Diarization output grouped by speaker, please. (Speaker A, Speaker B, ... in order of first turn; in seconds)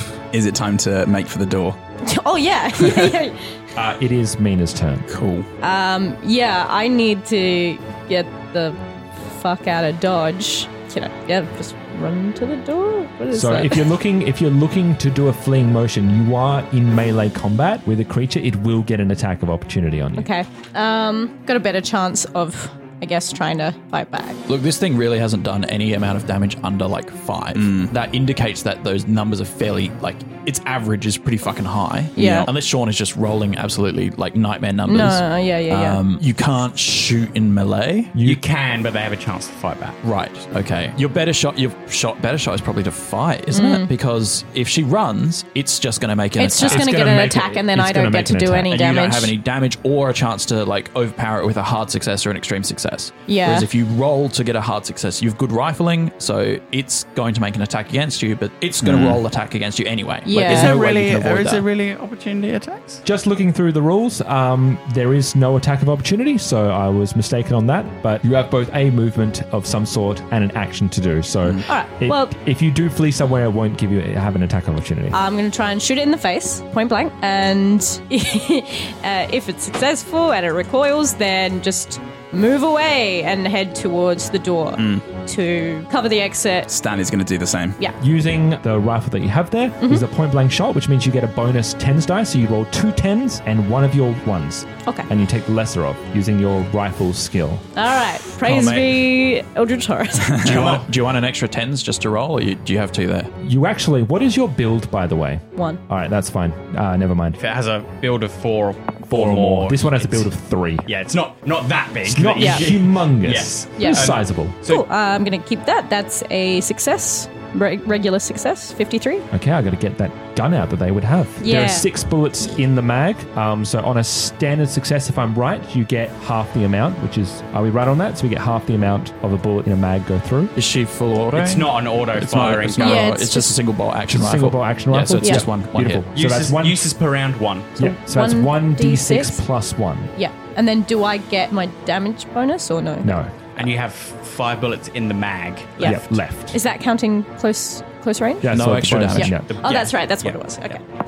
Speaker A: 0.3-1.8, 5.1-5.5, 27.6-27.9, 32.2-32.5, 58.8-59.2, 84.8-85.0, 86.7-87.8
Speaker B: 2.0-3.5, 5.6-13.9, 20.2-24.4, 32.2-32.5, 34.9-36.0, 43.5-43.9, 46.4-49.3, 53.3-53.7, 60.2-60.7, 71.7-72.3, 75.1-86.7, 89.8-90.0, 97.8-100.5, 105.6-105.8, 113.8-114.1, 114.6-119.3, 121.4-121.9, 132.8-133.6, 138.1-139.4, 140.2-143.2, 145.8-148.5, 149.1-150.8
Speaker C: 3.8-5.1, 13.3-20.3, 38.1-38.4, 46.7-48.7, 63.0-75.2, 88.0-97.7, 103.4-107.4, 109.1-110.9, 112.0-114.6, 119.3-130.5, 134.1-136.8, 137.8-140.1, 143.0-143.3, 145.8-146.6, 148.4-149.5
Speaker D: 24.5-38.1, 40.0-47.0, 48.7-61.7, 98.4-99.0, 100.4-103.3, 130.6-136.1, 148.5-149.4
Speaker E: 38.2-40.0, 60.5-63.0, 100.5-100.9, 107.4-110.3, 110.9-114.8, 131.3-133.1, 136.1-137.9, 143.6-146.0, 149.5-150.8